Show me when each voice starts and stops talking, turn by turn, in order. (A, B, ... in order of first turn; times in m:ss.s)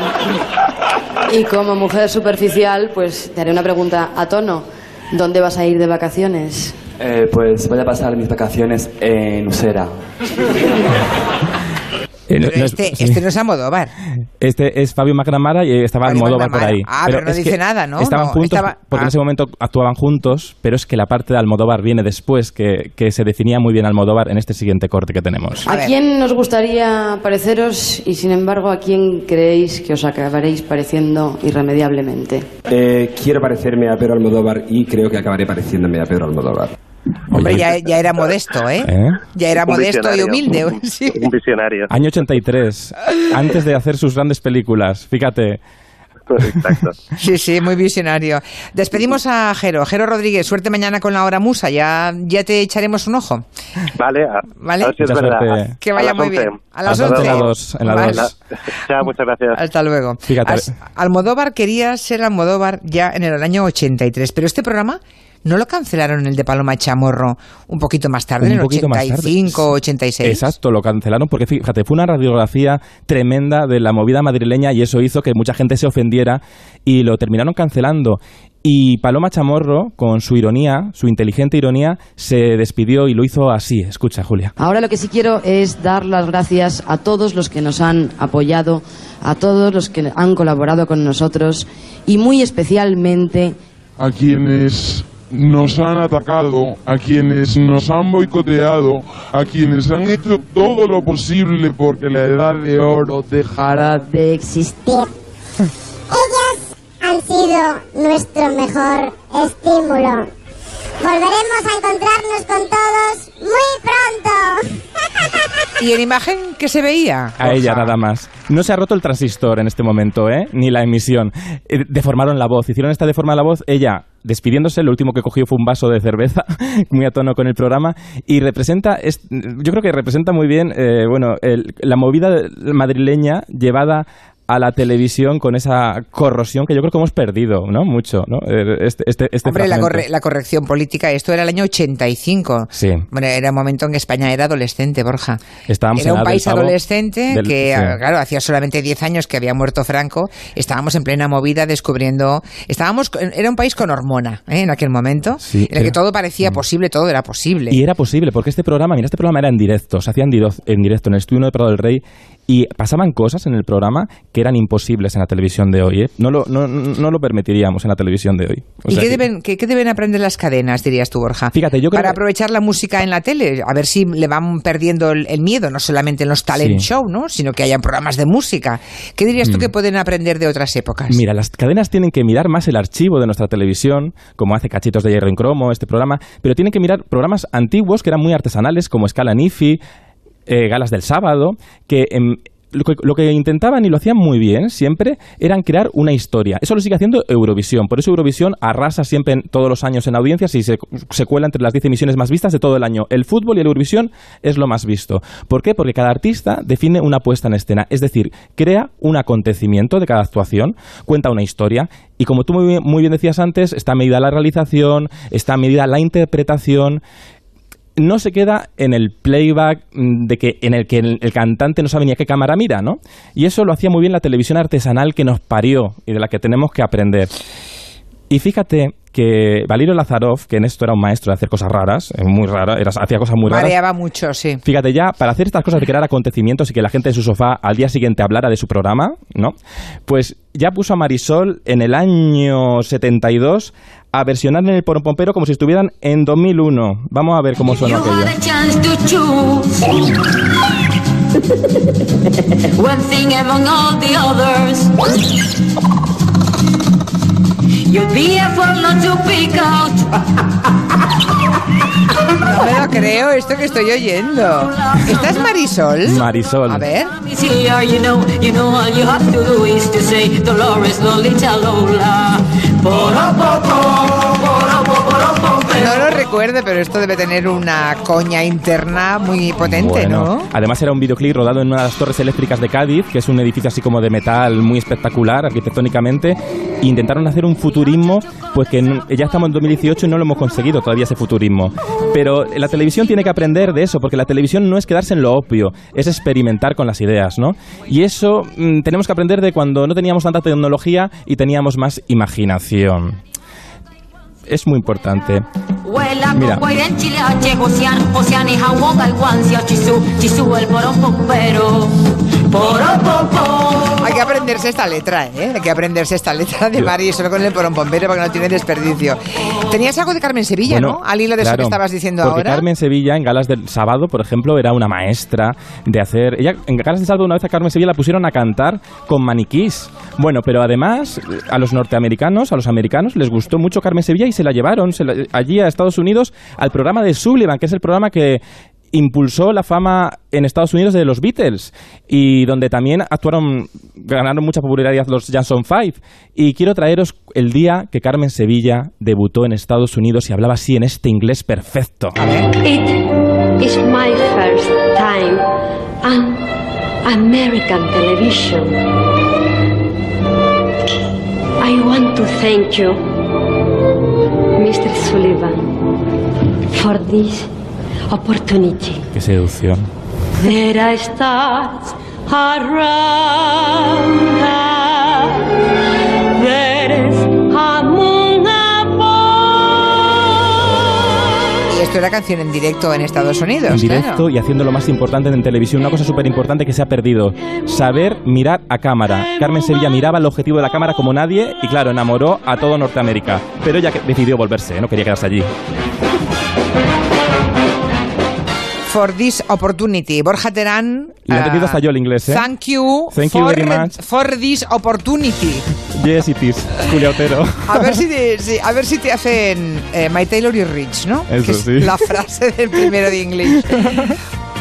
0:01.3-0:06.7 A
0:07.0-0:10.0 B
0:12.3-0:13.2 C
0:12.4-0:13.9 D
0:14.4-0:25.7 C
0:16.0-0:19.1 D
0:25.6-0:32.5 A
0:25.7-0:25.9 D
0:32.7-0:36.8 E
0:37.3-0:37.8 C
0:37.3-0:41.3 D
0:38.8-0:39.2 C
0:39.7-0:41.9 F
0:41.9-0:45.6 C
0:46.3-0:47.0 F
0:47.2-0:53.4 D
0:54.0-0:59.6 F
0:54.6-0:54.9 D
0:55.0-0:55.8 C
0:55.8-0:58.3 D
0:56.9-0:58.3 C
0:59.5-1:10.5 D
1:00.3-1:00.7 C
1:08.4-1:09.7 C
1:10.2-1:24.5 C
1:24.6-1:33.5 A
1:34.0-1:43.5 G
1:43.5-1:44.9 A
1:46.1-1:50.3 H
1:51.0-1:54.7 H
1:55.8-1:58.0 D
1:57.4-2:20.0 C
2:19.4-2:25.4 D
2:22.8-2:23.0 C
2:25.7-2:26.8 C
2:26.0-2:37.8 D
2:27.3-2:28.0 C
2:35.4-2:36.6 C
2:37.7-2:49.2 C
2:48.9-3:01.2 D
2:51.5-2:52.2 C
2:56.5-2:56.9 C
2:59.4-2:59.7 C
3:01.1-3:09.8 C
3:10.5-3:37.0 C
3:38.0-3:47.3 C
3:48.3-3:53.8 C
3:53.5-3:54.6 D
3:54.6-3:59.6 C
4:00.1-4:08.4 C
4:07.7-4:09.9 I
4:12.7-4:14.9 I
4:17.8-4:20.1 I
4:22.4-4:27.1 D
4:24.7-4:25.3 I
4:26.1-4:26.8 C
4:27.2-4:35.7 I
4:35.7-4:40.5 D
4:39.6-5:03.2 C
5:04.5-5:05.4 C
5:05.8-5:11.9 I
5:06.3-5:06.6 C
5:12.5-5:14.0 I
5:14.0-5:22.6 D
5:20.6-5:52.2 C
5:52.2-5:52.5 D
5:52.6-5:55.5 J
5:56.0-5:56.5 J
5:57.0-5:58.7 J
6:01.6-6:03.0 J
6:04.6-6:05.7 J
6:06.7-6:07.5 J
6:08.1-6:09.0 J
6:09.1-6:09.9 C
6:10.4-6:15.5 J
6:16.4-6:19.9 J
6:21.7-6:24.2 D
6:23.7-6:35.5 C
6:38.9-6:45.7 D
6:41.3-6:42.5 C
6:43.1-6:44.0 C
6:45.9-6:48.0 C
6:47.6-6:54.1 D
6:51.3-6:52.0 C
6:53.7-6:54.2 C